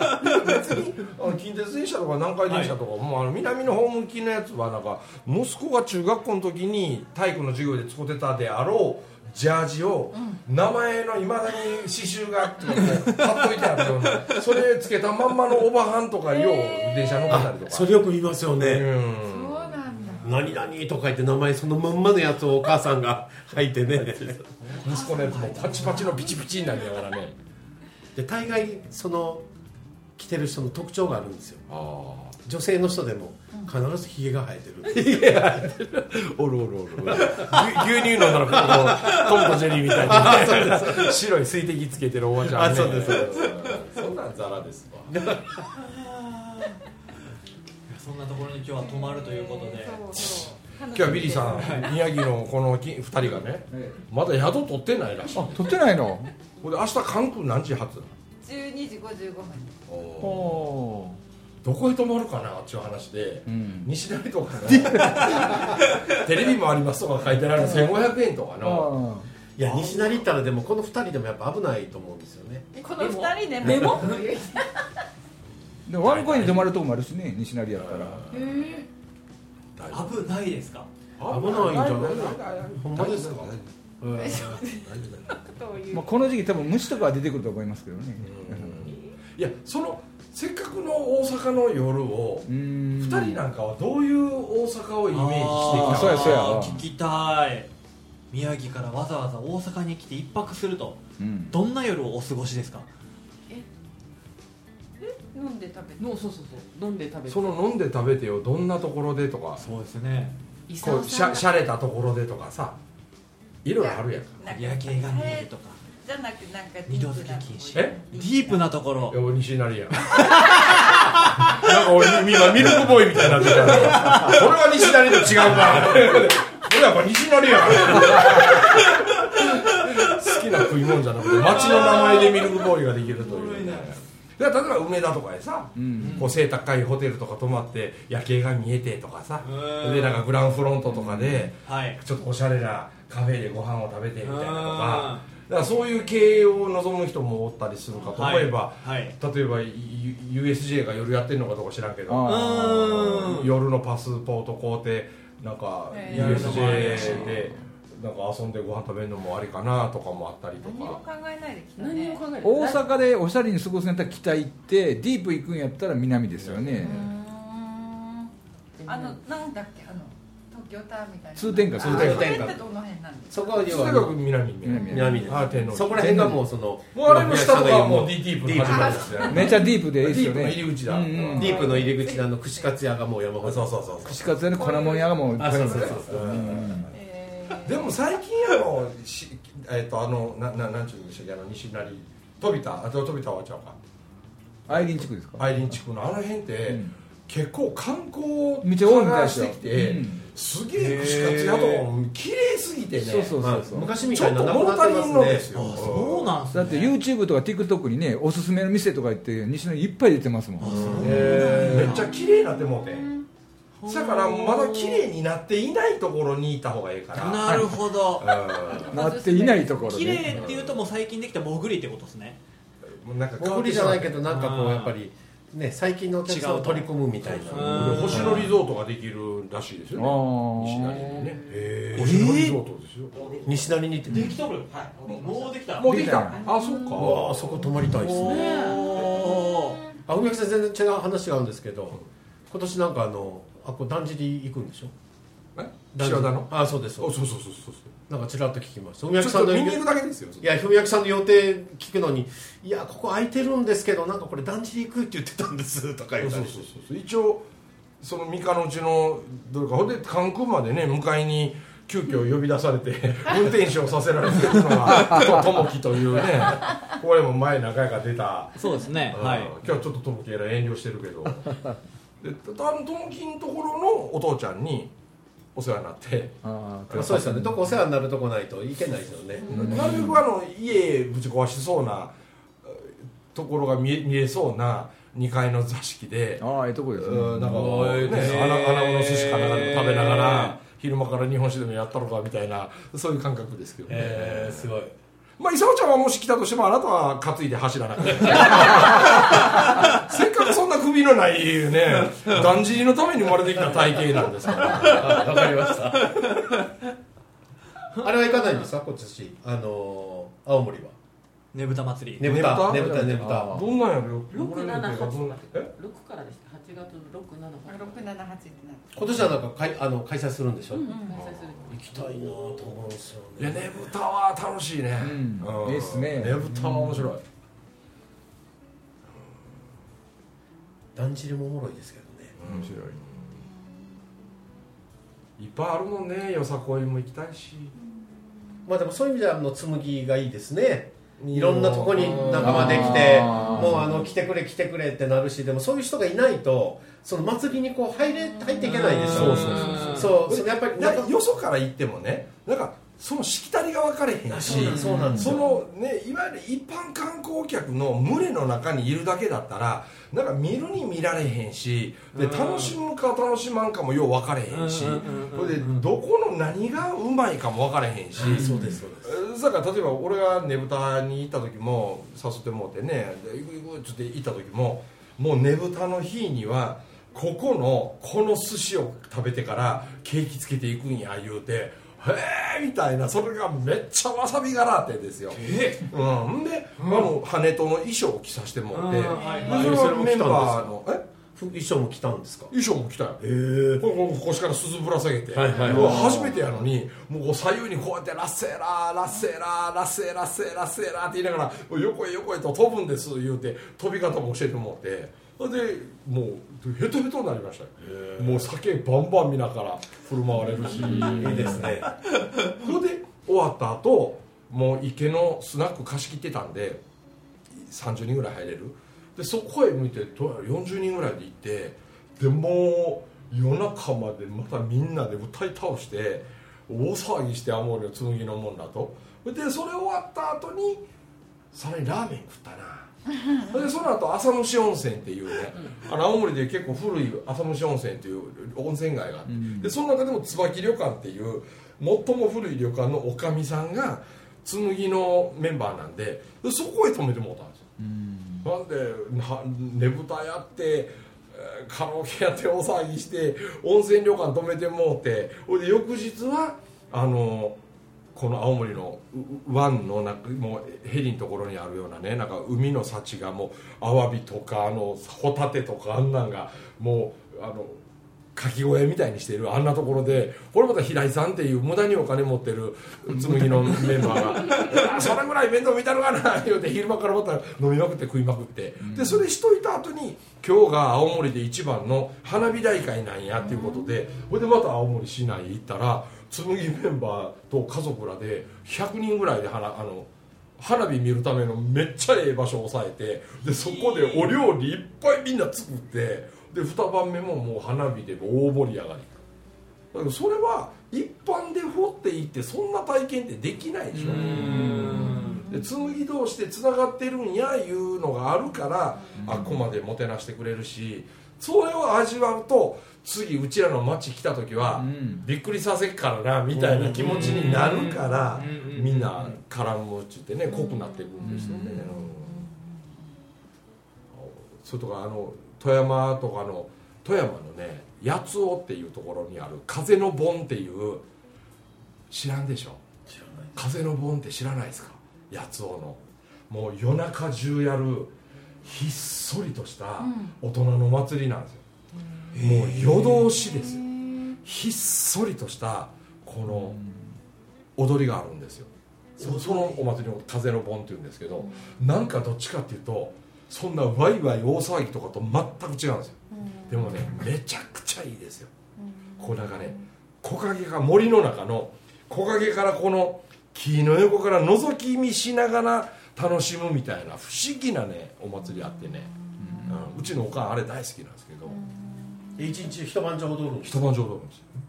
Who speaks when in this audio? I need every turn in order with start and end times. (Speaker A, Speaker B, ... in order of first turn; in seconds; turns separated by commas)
Speaker A: 0.2-17.9, Speaker B: 2.5-2.7, Speaker C: 10.1-10.4, Speaker B: 13.6-14.4, Speaker C: 16.3-17.4, Speaker D: 17.3-18.9, Speaker A: 18.6-19.8, Speaker C: 19.2-20.3, Speaker D: 20.2-24.4, Speaker A: 24.6-27.4, Speaker B: 24.6-26.1, Speaker C: 25.3-26.0, Speaker D: 28.1-29.4, Speaker D: 30.2-31.7, Speaker A: 31.7-32.4, Speaker D: 32.5-35.8, Speaker A: 34.9-45.2, Speaker D: 37.1-37.7, Speaker D: 38.5-39.2, Speaker D: 40.0-41.2, Speaker D: 42.4-43.8, Speaker B: 43.1-43.7, Speaker D: 45.1-45.5, Speaker B: 45.8-46.8, Speaker B: 47.9-50.1, Speaker C: 48.9-52.0, Speaker A: 50.2-55.8, Speaker B: 51.5-52.0, Speaker E: 53.7-54.0, Speaker E: 55.3-56.3, Speaker A: 56.6-58.1, Speaker C: 58.4-59.8, Speaker A: 59.9-60.6, Speaker E: 60.2-61.2, Speaker A: 61.6-69.0, Speaker E: 63.5-63.9, Speaker E: 67.5-68.0, Speaker E: 68.6-69.3, Speaker D: 69.6-72.7, Speaker A: 69.6-70.2, Speaker C: 72.8-74.8, Speaker F: 72.8-74.3, Speaker D: 73.6-74.1, Speaker E: 75.9-78.2, Speaker A: 76.0-76.7, Speaker A: 77.8-78.5, Speaker F: 78.3-78.9, Speaker A: 79.8-80.2, Speaker B: 79.9-80.9, Speaker A: 81.2-83.7, Speaker D: 81.3-84.6, Speaker C: 84.2-86.4, Speaker A: 84.3-85.3, Speaker E: 85.9-88.8, Speaker A: 88.2-96.8, Speaker E: 92.5-93.5, Speaker B: 95.1-97.7, Speaker E: 95.7-96.8, Speaker B: 98.3-102.9, Speaker E: 101.2-101.6, Speaker C: 105.0-106.1, Speaker F: 106.0-107.6, Speaker A: 107.3-109.6, Speaker B: 109.6-110.3, Speaker F: 110.7-111.5, Speaker A: 110.8-112.8, Speaker A: 113.6-114.4, Speaker C: 113.8-118.6, Speaker B: 114.5-115.8, Speaker B: 116.9-119.2, Speaker A: 117.7-118.0, Speaker A: 119.1-120.3, Speaker B: 120.0-122.7, Speaker A: 121.2-161.0, Speaker B: 123.3-126.1, Speaker B: 127.8-129.0, Speaker B: 131.3-133.9, Speaker E: 135.8-136.3, Speaker B: 136.0-136.3, Speaker B: 139.4-140.3, Speaker E: 140.9-141.5, Speaker B: 141.7-142.0, Speaker B: 144.2-145.3, Speaker B: 147.9-149.2, Speaker E: 152.1-152.8, Speaker B: 152.3-153.6, Speaker B: 156.1-157.4, Speaker E: 156.2-157.5, Speaker C: 160.6-162.2, Speaker F: 161.8-163.0, Speaker E: 162.4-167.1, Speaker A: 166.4-167.0, Speaker C: 166.8-168.3, Speaker F: 168.8-169.2, Speaker C: 168.9-173.9, Speaker E: 171.4-172.4, Speaker D: 171.8-172.6, Speaker A: 171.9-172.5, Speaker D: 173.3-174.2, Speaker A: 173.6-181.7, Speaker E: 174.6-175.3, Speaker C: 174.8-175.7, Speaker D: 174.9-179.3, Speaker E: 176.1-176.3, Speaker C: 178.7-179.7, Speaker E: 179.2-181.9, Speaker C: 181.2-182.8, Speaker D: 181.3-184.0, Speaker A: 183.4-184.4, Speaker E: 184.1-186.9, Speaker C: 184.5-185.3, Speaker D: 185.4-186.8, Speaker A: 185.8-186.9, Speaker C: 186.9-187.9, Speaker A: 187.6-193.8, Speaker A: 194.7-203.4, Speaker E: 194.7-195.8, Speaker E: 196.7-196.9, Speaker E: 198.6-200.3, Speaker B: 200.8-201.9, Speaker E: 202.9-204.1, Speaker D: 203.4-205.5, Speaker A: 204.1-206.3, Speaker B: 205.5-206.9, Speaker E: 206.5-211.8, Speaker B: 210.6-212.2, Speaker D: 210.7-211.9, Speaker A: 211.0-213.1, Speaker C: 211.6-213.2, Speaker B: 213.8-215.0, Speaker A: 213.9-219.1, Speaker B: 217.1-218.8, Speaker E: 217.5-217.8, Speaker C: 218.7-220.0, Speaker E: 218.7-220.4, Speaker B: 219.4-222.4, Speaker A: 220.3-220.8, Speaker A: 222.9-224.2, Speaker D: 223.4-228.2, Speaker B: 224.3-224.9, Speaker B: 226.2-228.5, Speaker A: 227.2-233.7, Speaker E: 229.9-231.2, Speaker B: 231.9-232.6, Speaker D: 233.4-234.4, Speaker B: 234.1-236.4, Speaker A: 235.1-237.8, Speaker E: 235.8-236.5, Speaker F: 236.5-237.0, Speaker D: 236.9-238.7, Speaker F: 238.0-238.9, Speaker B: 238.1-239.8, Speaker A: 238.9-239.3, Speaker D: 240.1-244.9, Speaker A: 245.6-247.9, Speaker D: 246.0-247.2, Speaker D: 248.1-249.9, Speaker A: 249.2-250.5, Speaker D: 250.4-256.7, Speaker A: 256.2-257.4, Speaker A: 258.0-268.6, Speaker E: 264.9-265.2, Speaker B: 268.6-269.5, Speaker A: 269.1-271.5, Speaker A: 272.2-274.9, Speaker A: 275.6-277.3, Speaker E: 276.4-277.6, Speaker D: 276.9-280.0, Speaker E: 279.5-280.2, Speaker A: 279.5-294.7, Speaker E: 286.4-288.2, Speaker D: 287.4-288.5, Speaker B: 288.1-290.6, Speaker D: 293.9-294.9, Speaker A: 295.4-305.3, Speaker D: 304.5-306.3, Speaker B: 306.2-306.5, Speaker D: 308.0-310.9, Speaker B: 311.5-312.4, Speaker D: 312.2-313.7, Speaker A: 312.2-315.7, Speaker E: 312.5-313.7, Speaker F: 314.3-318.0, Speaker C: 317.7-319.0, Speaker D: 318.9-320.9, Speaker F: 320.7-321.8, Speaker C: 320.8-321.2, Speaker A: 321.1-322.7, Speaker D: 321.7-323.9, Speaker A: 323.4-327.2, Speaker E: 325.0-327.1, Speaker D: 330.9-332.4, Speaker A: 332.4-333.3, Speaker E: 332.4-333.0, Speaker A: 335.4-337.7, Speaker D: 338.7-351.1, Speaker A: 341.2-343.5, Speaker E: 342.2-343.9, Speaker B: 348.6-350.1, Speaker A: 349.1-368.5, Speaker B: 354.3-355.4, Speaker D: 354.4-355.5, Speaker E: 354.9-355.3, Speaker B: 362.1-362.8, Speaker B: 364.5-365.9, Speaker D: 368.2-369.2, Speaker E: 368.2-368.8, Speaker A: 369.0-391.1, Speaker B: 385.3-385.9, Speaker B: 386.8-387.1, Speaker B: 388.7-389.9, Speaker C: 389.1-389.6, Speaker D: 389.4-390.8, Speaker D: 391.3-392.5, Speaker A: 392.5-393.2, Speaker D: 393.2-393.9, Speaker A: 393.8-411.8, Speaker D: 395.3-396.5, Speaker C: 395.5-396.2, Speaker D: 407.8-408.5, Speaker D: 410.7-411.9, Speaker E: 410.8-411.7, Speaker A: 412.5-416.8, Speaker A: 417.5-430.9, Speaker A: 431.5-447.7, Speaker E: 439.3-439.7, Speaker E: 447.8-448.5, Speaker A: 448.4-457.6, Speaker A: 458.1-467.8, Speaker A: 468.4-499.1, Speaker E: 473.2-474.0, Speaker E: 478.8-479.2, Speaker C: 483.4-483.9, Speaker B: 493.4-494.3, Speaker A: 499.9-522.5, Speaker E: 503.9-505.2, Speaker B: 504.0-505.5, Speaker C: 505.0-505.6, Speaker E: 509.1-509.7, Speaker E: 514.8-515.2, Speaker D: 516.6-517.3, Speaker B: 516.8-519.4, Speaker C: 520.5-522.8, Speaker E: 521.2-521.9, Speaker A: 524.1-531.1, Speaker A: 532.1-532.8, Speaker D: 533.1-533.5, Speaker A: 533.6-541.6, Speaker C: 540.0-540.4, Speaker B: 542.3-543.5, Speaker A: 542.4-543.9, Speaker C: 543.7-544.1, Speaker A: 544.4-546.8, Speaker E: 546.5-547.1, Speaker A: 547.8-558.5, Speaker B: 549.2-549.9, Speaker C: 551.5-551.7, Speaker C: 556.3-557.2, Speaker C: 558.8-559.8, Speaker A: 559.2-571.6, Speaker E: 569.4-569.9, Speaker C: 571.5-572.5, Speaker D: 572.4-573.9, Speaker A: 573.6-574.5